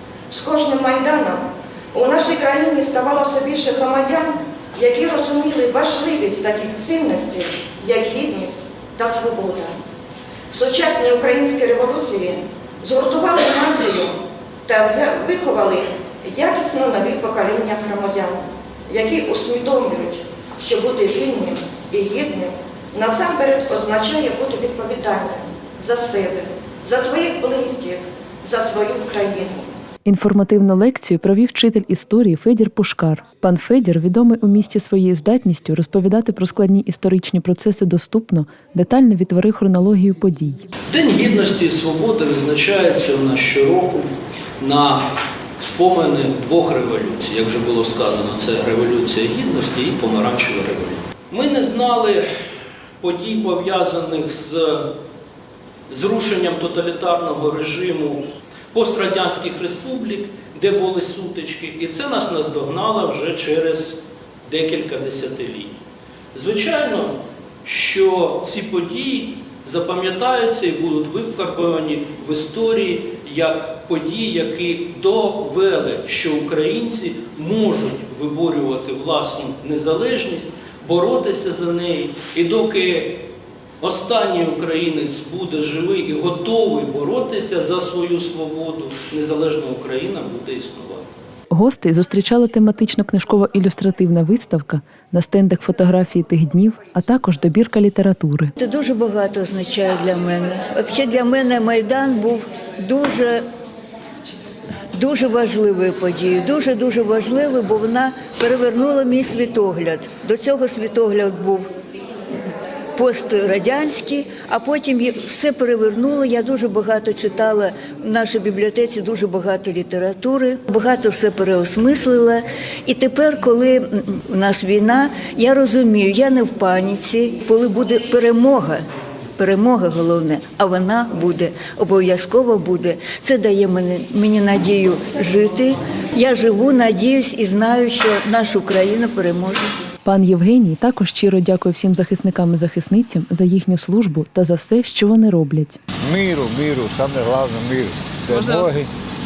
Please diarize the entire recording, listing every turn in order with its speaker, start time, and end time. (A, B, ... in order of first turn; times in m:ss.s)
0:00.3-0:09.8 A
0:10.5-0:29.7 A
0:30.0-0:40.6 B
0:40.9-0:44.1 C
0:44.6-0:52.3 C
0:53.0-0:54.9 C
0:55.9-1:05.7 C
1:06.3-1:23.2 C
1:23.8-1:31.1 C
1:31.5-1:38.5 B
1:38.6-1:43.4 D
1:44.9-1:51.7 D
1:52.9-2:08.8 D
2:09.4-2:19.7 D
2:20.0-2:25.8 B
2:26.0-2:28.9 E